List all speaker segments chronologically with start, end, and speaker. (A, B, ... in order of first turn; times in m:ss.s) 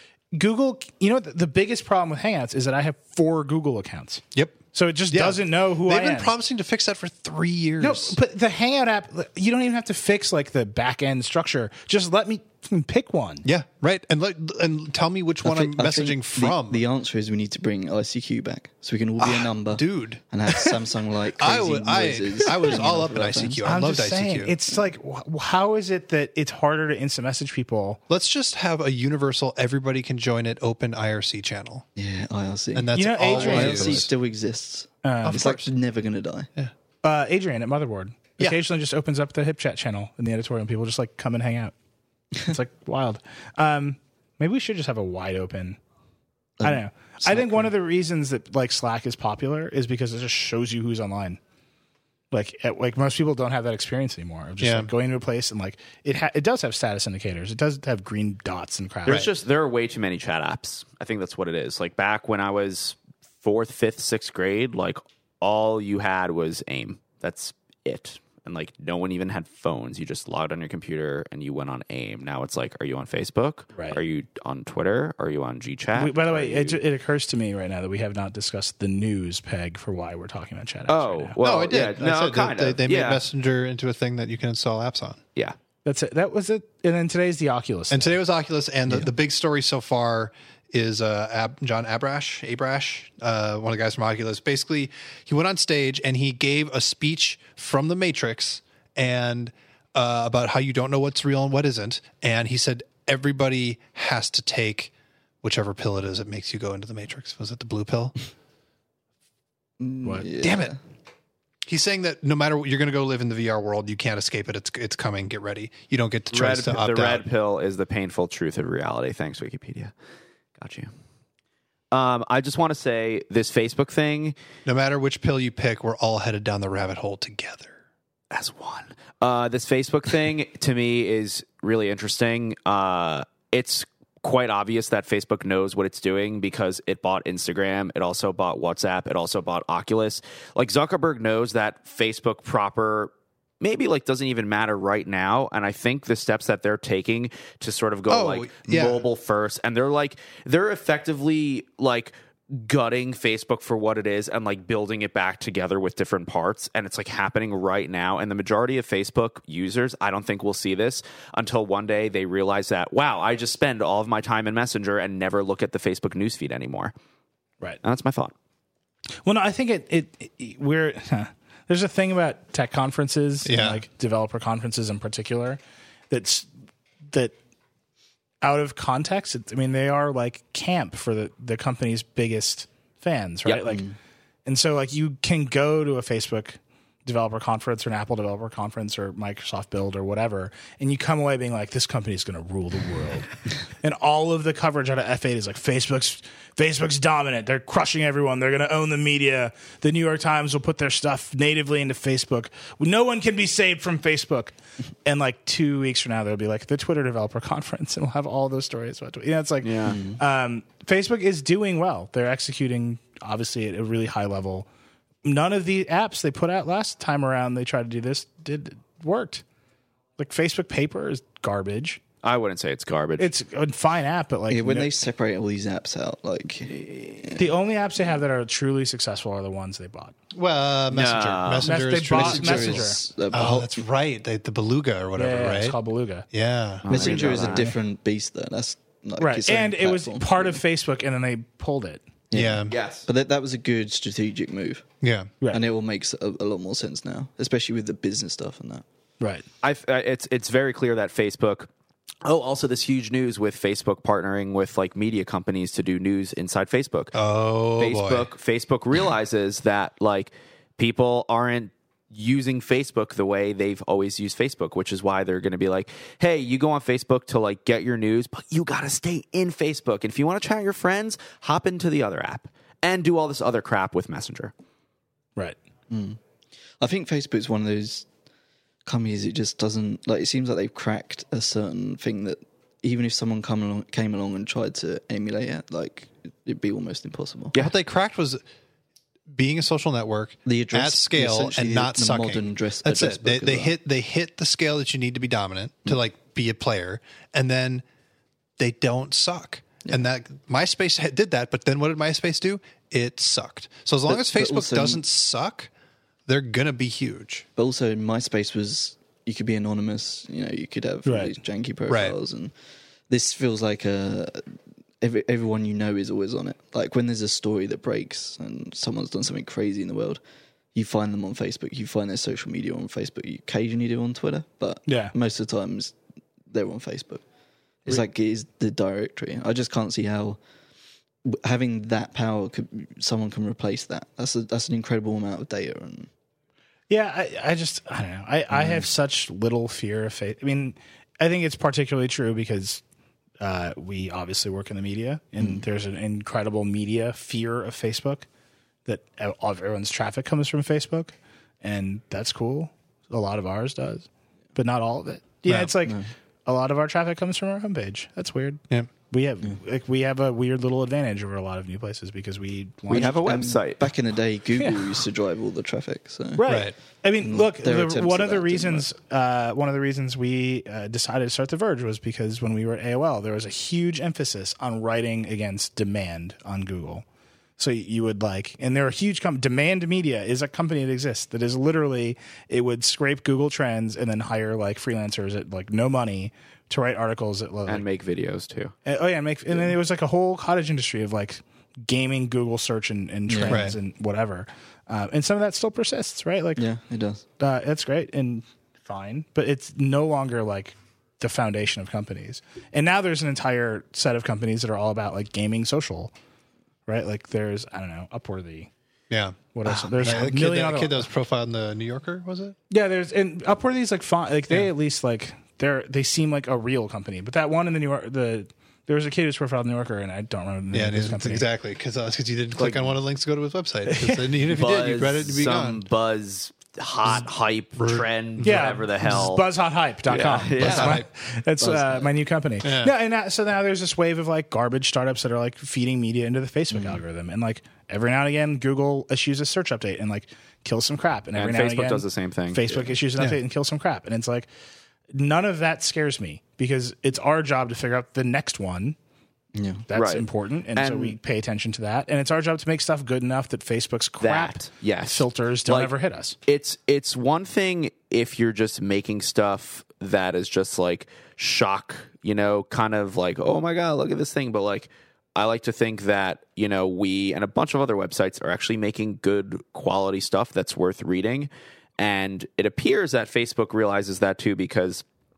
0:00.3-0:06.3 A
0:04.3-0:04.6 B
0:05.1-0:08.2 B
0:07.8-0:13.5 A
0:13.4-0:16.8 B
0:15.4-0:23.6 C
0:19.2-0:20.7 B
0:21.4-0:24.5 B
0:23.6-0:28.0 A
0:28.1-0:31.8 B
0:32.0-0:36.5 C
0:32.7-0:34.1 B
0:32.9-0:34.0 A
0:35.0-0:35.4 A
0:35.2-0:35.6 B
0:37.0-0:41.7 A
0:42.4-0:45.8 A
0:46.6-0:51.4 A
0:52.3-0:59.3 A
0:54.6-0:54.9 B
0:59.1-1:16.8 D
1:16.0-1:21.4 A
1:20.9-1:23.2 D
1:21.4-1:25.2 B
1:25.8-1:28.2 A
1:27.9-1:48.2 B
1:49.8-1:50.8 C
1:50.4-1:50.8 B
1:51.7-1:57.2 B
1:56.3-1:59.9 D
2:00.6-2:00.9 D
2:01.9-2:04.4 D
2:04.7-2:07.8 B
2:08.3-2:46.9 D
2:28.1-2:29.1 B
2:47.8-2:48.3 D
2:49.2-2:55.6 A
2:53.4-2:53.8 B
2:56.1-2:56.5 A
2:58.4-3:03.8 A
3:03.7-3:04.0 C
3:04.5-3:24.5 A
3:25.0-3:34.7 A
3:29.6-3:30.0 D
3:29.9-3:30.2 C
3:35.2-3:39.4 A
3:40.2-3:42.0 A
3:42.2-3:43.3 D
3:43.2-3:44.9 A
3:44.5-3:47.4 C
3:47.4-3:50.1 A
3:50.3-3:55.8 B
3:50.9-3:51.8 D
3:51.6-3:53.0 A
3:52.1-3:53.8 C
3:55.2-3:56.3 A
3:56.3-3:57.4 B
3:56.8-3:57.8 D
3:56.9-4:00.6 C
3:59.2-4:02.0 A
4:02.3-4:04.9 C
4:02.3-4:02.7 B
4:02.7-4:03.1 D
4:05.0-4:05.3 B
4:05.5-4:08.8 C
4:09.2-4:09.5 A
4:09.6-4:11.7 D
4:12.2-4:17.1 D
4:17.1-4:18.3 B
4:17.8-4:34.5 D
4:35.9-4:36.2 C
4:36.8-4:38.1 C
4:38.9-4:47.6 C
4:47.6-4:48.4 B
4:49.3-4:57.8 B
4:50.4-4:53.8 C
4:58.6-5:05.7 B
5:04.1-5:05.0 C
5:06.3-5:07.4 B
5:07.6-5:12.5 C
5:11.1-5:11.4 A
5:11.9-5:12.2 B
5:13.1-5:14.4 C
5:15.0-5:20.2 C
5:20.8-5:26.0 C
5:24.9-5:25.1 A
5:26.5-5:27.2 C
5:27.8-5:30.4 C
5:31.3-5:36.1 C
5:36.9-5:42.8 A
5:38.5-5:38.9 C
5:43.4-5:48.3 A
5:48.9-6:03.2 A
5:55.5-5:55.7 B
6:02.9-6:03.9 D
6:02.9-6:06.4 C
6:04.6-6:04.9 A
6:06.4-6:17.0 A
6:06.5-6:06.7 B
6:07.2-6:08.9 C
6:17.6-6:27.9 A
6:27.7-6:28.7 D
6:28.8-6:36.6 A
6:33.3-6:33.7 C
6:33.5-6:33.8 B
6:36.6-6:37.2 C
6:37.4-6:46.1 A
6:46.9-6:48.7 A
6:49.1-6:52.6 B
6:49.5-6:51.1 A
6:52.7-7:01.5 A
7:00.7-7:05.8 B
7:02.6-7:02.9 D
7:03.9-7:04.3 A
7:04.5-7:09.4 D
7:07.8-7:08.7 B
7:08.4-7:24.5 A
7:10.1-7:11.0 D
7:10.6-7:11.1 B
7:11.6-7:12.1 C
7:12.6-7:12.9 B
7:16.7-7:17.0 C
7:21.4-7:22.9 D
7:25.1-7:29.0 A
7:29.6-7:29.9 C
7:29.9-7:36.4 A
7:29.9-7:31.2 D
7:34.2-7:35.9 D
7:36.5-7:55.0 D